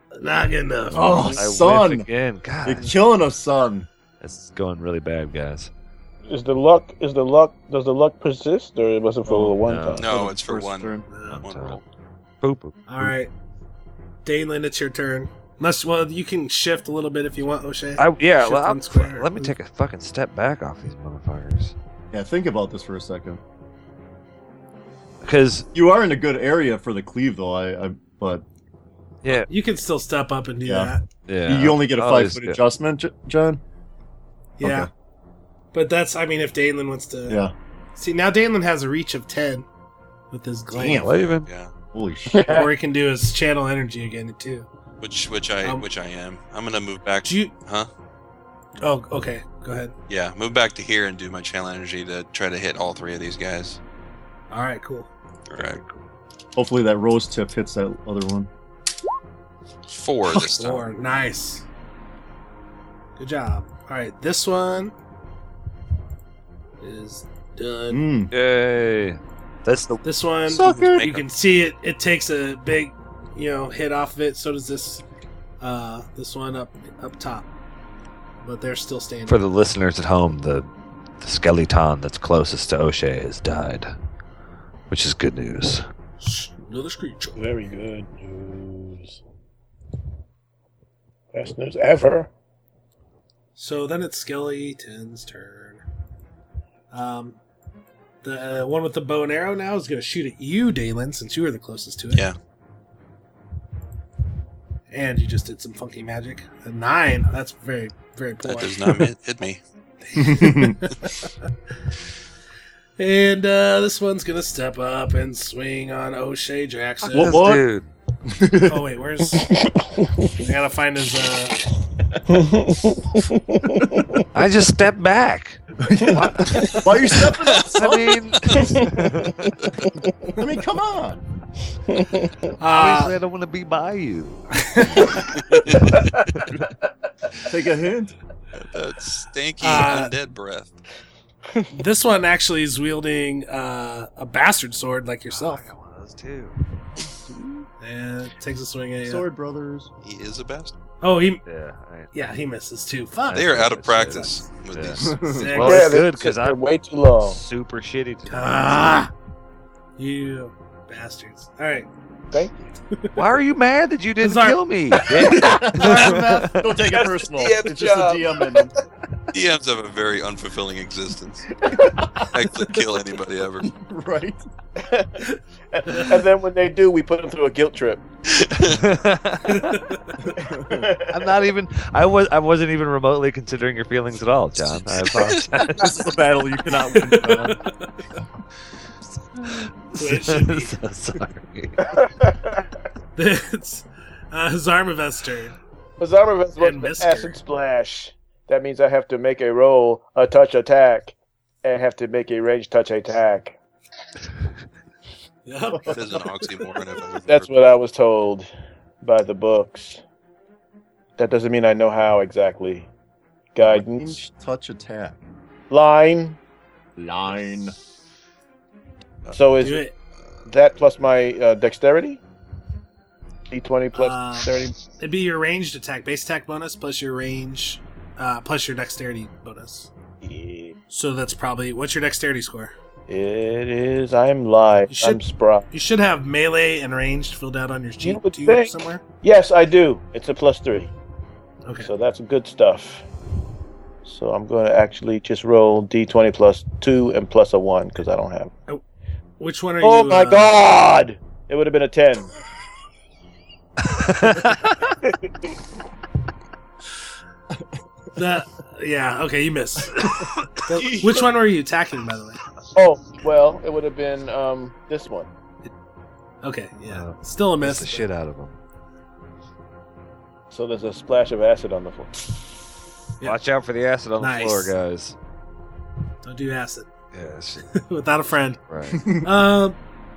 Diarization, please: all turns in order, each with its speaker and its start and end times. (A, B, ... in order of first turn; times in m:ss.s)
0:00.1-0:01.4 A
0:00.9-0:02.9 B
0:01.0-0:02.1 C
0:02.6-0:03.9 C
0:04.2-0:05.7 B
0:06.3-0:10.1 D
0:09.3-0:10.1 B
0:10.0-0:11.8 E
0:10.0-0:11.1 C
0:11.1-0:11.5 A
0:11.3-0:11.8 B
0:12.4-0:13.1 B
0:12.9-0:13.3 A
0:14.2-0:19.5 A
0:18.0-0:21.8 B
0:22.1-0:23.4 C
0:25.2-0:25.7 B
0:25.7-0:28.4 C
0:29.3-0:31.0 A
0:30.7-0:30.9 C
0:31.3-0:32.6 B
0:31.5-0:33.6 C
0:34.6-0:34.9 A
0:34.6-0:34.9 C
0:35.7-0:37.4 A
0:37.3-0:37.5 C
0:38.0-0:39.7 A
0:40.3-0:41.2 A
0:40.7-0:41.1 C
0:40.8-0:41.5 B
0:41.4-0:41.7 E
0:41.9-0:42.5 C
0:42.3-0:42.7 D
0:42.4-0:44.7 A
0:45.0-0:47.9 E
0:47.2-0:47.5 A
0:48.8-0:50.0 A
0:50.1-0:53.8 E
0:54.5-0:55.1 A
0:55.5-0:55.8 E
0:56.6-0:58.5 C
0:59.9-1:00.9 E
1:00.3-1:01.6 A
1:03.2-1:04.9 A
1:06.8-1:08.0 A
1:07.9-1:08.3 C
1:08.3-1:10.0 B
1:10.0-1:15.0 A
1:10.5-1:11.1 C
1:10.8-1:11.3 E
1:15.6-1:17.5 A
1:18.4-1:19.5 A
1:19.3-1:20.7 B
1:21.2-1:23.9 B
1:24.9-1:25.8 B
1:26.2-1:27.4 A
1:27.4-1:29.2 D
1:31.3-1:32.3 D
1:33.6-1:35.8 A
1:36.9-1:37.4 A
1:38.2-1:42.3 A
1:44.9-1:49.1 A
1:48.4-1:49.6 E
1:50.0-1:51.3 A
1:50.2-1:50.8 C
1:53.0-1:57.5 A
1:57.0-1:57.9 B
1:57.2-1:57.6 C
1:58.3-1:58.8 C
1:58.6-1:59.5 A
1:59.4-2:00.5 D
2:00.4-2:01.6 A
2:02.3-2:04.2 D
2:04.3-2:09.6 B
2:05.8-2:08.6 C
2:08.8-2:09.5 D
2:10.0-2:10.4 D
2:10.4-2:11.2 C
2:11.9-2:12.4 D
2:12.6-2:13.2 A
2:12.6-2:16.6 B
2:17.5-2:18.2 C
2:18.6-2:20.8 E
2:19.6-2:20.1 A
2:21.7-2:25.7 A
2:25.3-2:26.6 B
2:27.8-2:29.3 A
2:29.0-2:29.9 C
2:30.0-2:30.8 E
2:31.0-2:31.4 A
2:31.5-2:32.1 B
2:32.1-2:34.3 A
2:33.3-2:36.6 B
2:33.3-2:35.5 E
2:35.0-2:35.5 C
2:35.3-2:36.0 A
2:35.6-2:37.4 D
2:37.2-2:39.1 B
2:38.3-2:39.1 A
2:40.0-2:41.9 A
2:42.3-2:42.7 D
2:43.2-2:46.5 B
2:44.2-2:46.5 A
2:45.3-2:48.7 C
2:46.9-2:48.7 D
2:49.3-2:51.6 E
2:51.7-2:52.4 C
2:52.3-2:53.7 E
2:53.6-2:54.4 C
2:54.8-2:55.2 D
2:55.7-2:58.0 D
2:55.9-2:56.2 A
2:58.3-2:58.8 E
2:58.6-2:59.8 B
2:59.5-3:00.0 A
3:00.3-3:00.9 C
3:00.6-3:01.2 D
3:01.1-3:06.0 B
3:05.8-3:07.6 C
3:06.9-3:07.9 A
3:09.4-3:11.9 B
3:10.0-3:10.8 A
3:11.9-3:12.6 D
3:13.2-3:15.6 A
3:16.0-3:23.6 D
3:16.6-3:17.4 A
3:25.5-3:26.7 A
3:25.9-3:27.5 E
3:27.3-3:30.0 D
3:31.2-3:32.9 D
3:33.5-3:34.2 D
3:33.6-3:35.2 C
3:35.7-3:36.4 D
3:37.0-3:37.8 C
3:39.3-3:39.9 D
3:39.6-3:40.0 A
3:40.5-3:42.2 D
3:43.5-3:44.8 D
3:43.9-3:49.9 A
3:50.2-3:50.8 D
3:50.9-3:52.7 A
3:53.1-3:55.7 D
3:54.9-3:59.0 A
3:58.0-4:00.9 D
4:01.6-4:01.9 A
4:01.8-4:03.1 D
4:04.0-4:08.5 D
4:09.4-4:10.6 A
4:09.8-4:12.3 D
4:13.9-4:15.0 B
4:15.0-4:15.3 D
4:18.2-4:22.4 A
4:20.7-4:21.3 D
4:22.7-4:25.3 D
4:26.4-4:28.1 A
4:26.9-4:28.6 B
4:30.5-4:32.3 D
4:33.2-4:35.2 B
4:34.2-4:34.7 A
4:36.2-4:36.9 A
4:37.1-4:37.7 B
4:37.7-4:38.6 A
4:38.7-4:39.0 B
4:38.9-4:39.3 C
4:39.2-4:39.8 A